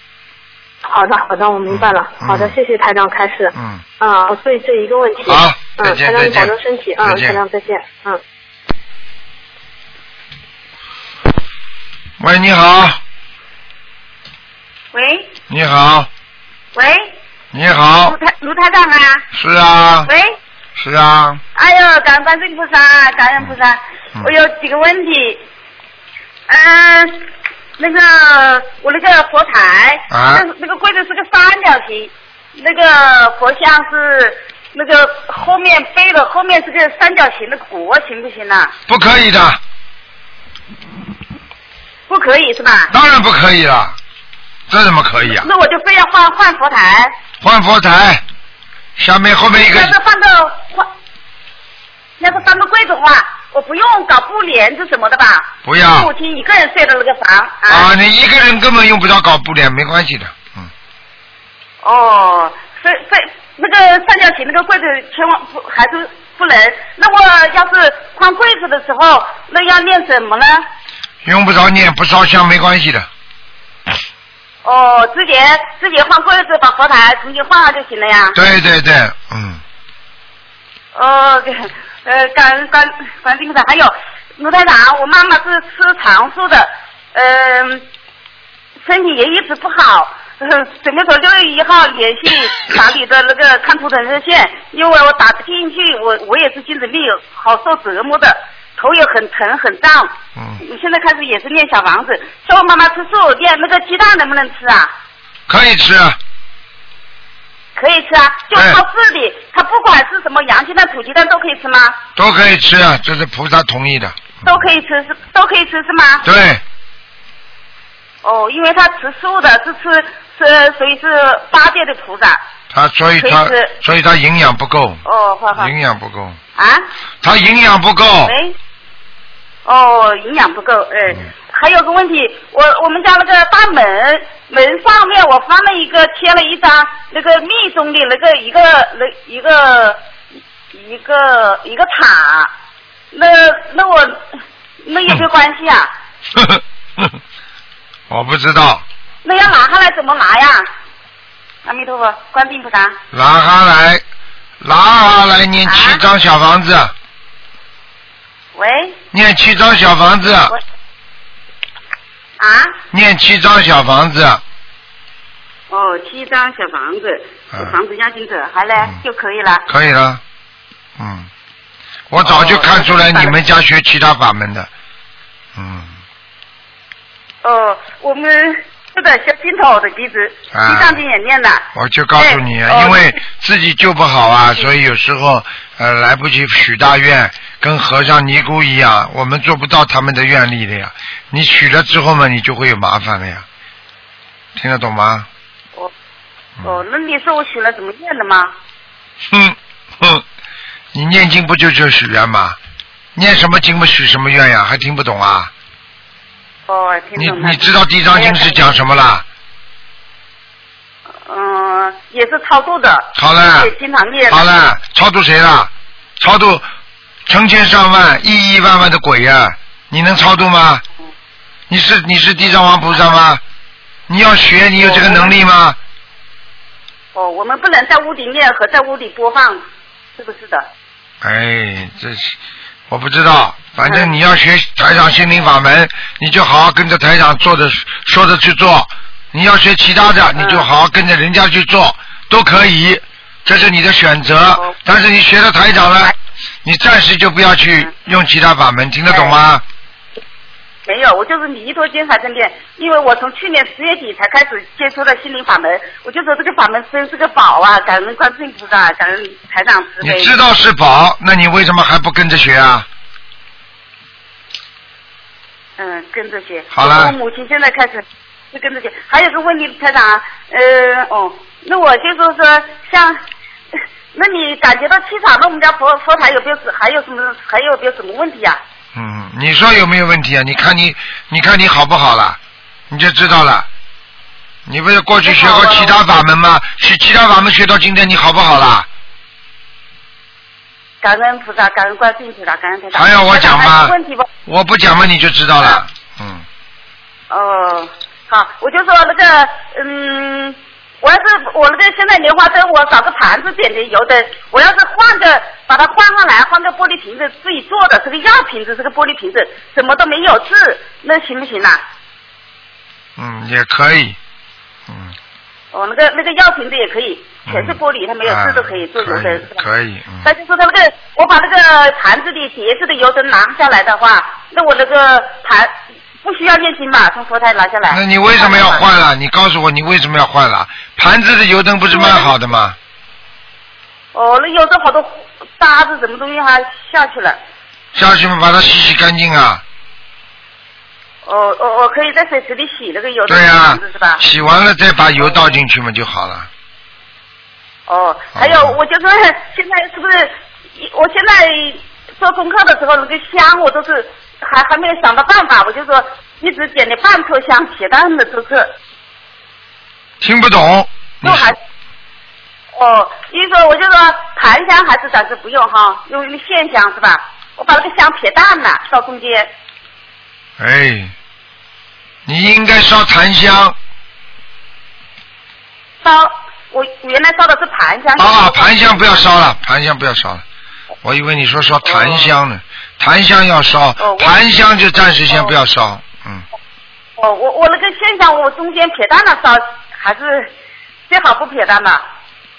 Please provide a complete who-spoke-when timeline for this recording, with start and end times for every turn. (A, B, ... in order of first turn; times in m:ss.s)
0:01.0-0:08.2 A
0:01.7-0:02.6 B
0:03.5-0:03.8 B
0:05.2-0:07.4 B
0:12.2-0:13.0 B
0:14.9-0:15.3 C
0:15.5-0:16.1 B
0:16.7-0:17.2 C
0:17.5-0:18.2 B
0:18.0-0:19.3 C
0:19.3-0:20.1 B
0:20.0-0:20.4 C
0:20.8-0:21.4 B
0:21.6-0:25.4 C
0:26.5-0:38.7 C
0:30.1-0:30.5 B
0:38.9-0:39.6 B
0:42.1-0:42.9 C
0:42.9-0:44.0 B
0:44.7-0:45.5 B
0:45.3-0:47.1 C
0:47.4-0:48.2 B
0:49.0-0:50.0 B
0:49.5-0:50.9 C
0:52.2-0:57.9 C
0:55.6-0:56.1 B
0:57.7-1:00.7 B
1:01.8-1:10.6 C
1:11.2-1:13.1 B
1:14.6-1:18.4 C
1:18.4-1:19.6 B
1:21.0-1:27.8 C
1:28.8-1:44.9 C
1:40.4-1:40.6 B
1:45.5-1:46.2 B
1:47.8-1:52.0 C
1:48.5-1:48.8 B
1:52.2-1:54.6 B
1:54.4-1:56.2 C
1:56.2-1:56.6 B
1:58.2-2:02.4 C
2:02.7-2:05.0 B
2:03.2-2:03.8 C
2:05.0-2:05.7 C
2:05.6-2:06.4 B
2:06.6-2:06.8 C
2:07.2-2:08.4 B
2:08.2-2:08.6 C
2:09.7-2:20.0 C
2:20.7-2:22.5 C
2:23.1-2:24.2 C
2:24.8-2:25.9 C
2:26.3-2:27.2 B
2:28.1-2:28.8 B
2:29.2-2:30.7 C
2:31.6-2:33.0 C
2:33.1-2:34.0 B
2:34.6-2:36.9 B
2:35.6-2:36.0 C
2:38.6-2:39.0 C
2:39.1-2:40.6 B
2:42.4-2:42.8 C
2:42.9-2:44.4 B
2:45.7-2:49.6 C
2:49.7-2:50.2 B
2:51.0-2:51.3 B
2:52.1-2:54.7 B
2:52.2-2:53.4 C
2:55.6-2:55.9 B
2:57.4-3:03.1 C
3:00.5-3:01.0 B
3:01.7-3:13.5 B
3:14.6-3:15.3 B
3:16.6-3:18.5 C
3:19.3-3:20.2 B
3:20.9-3:22.6 B
3:23.2-3:25.5 B
3:26.7-3:28.7 C
3:27.2-3:29.2 B
3:31.2-3:34.5 C
3:33.2-3:33.7 B
3:34.3-3:36.7 B
3:37.3-3:40.8 B
3:41.7-3:43.4 B
3:44.1-3:45.8 B
3:44.8-3:45.4 C
3:47.2-3:49.6 C
3:50.2-3:50.7 C
3:51.2-3:52.4 B
3:52.9-4:09.6 B
3:53.9-3:54.2 C
4:00.4-4:00.7 C
4:09.1-4:09.4 C
4:10.9-4:20.4 C
4:20.0-4:22.9 B
4:25.8-4:33.2 C
4:26.7-4:27.2 B
4:34.1-4:38.6 C
4:39.0-4:42.4 B
4:42.9-4:43.7 B
4:44.7-4:48.9 B
4:45.2-4:46.0 C
4:51.0-4:54.3 C
4:52.9-4:54.0 B
4:54.5-4:56.4 B
4:57.3-5:11.8 C
5:13.2-5:14.2 B
5:14.9-5:15.2 B
5:15.7-5:19.7 C
5:17.5-5:20.3 B
5:20.2-5:28.9 C
5:27.9-5:32.8 B
5:31.9-5:32.3 C
5:34.1-5:37.4 C
5:38.0-5:39.6 B
5:41.2-5:44.2 C
5:43.3-5:46.5 B
5:45.2-5:45.6 C
5:47.9-5:58.7 C
5:48.3-5:48.8 B
6:00.2-6:01.6 B
6:01.2-6:01.6 C
6:02.7-6:09.5 C
6:10.6-6:11.1 B
6:12.3-6:13.8 B
6:16.0-6:19.3 C
6:18.2-6:20.4 B
6:21.0-6:26.4 B
6:21.8-6:22.3 C
6:24.0-6:24.4 C
6:25.1-6:25.6 C
6:27.2-6:30.5 C
6:31.1-6:32.0 C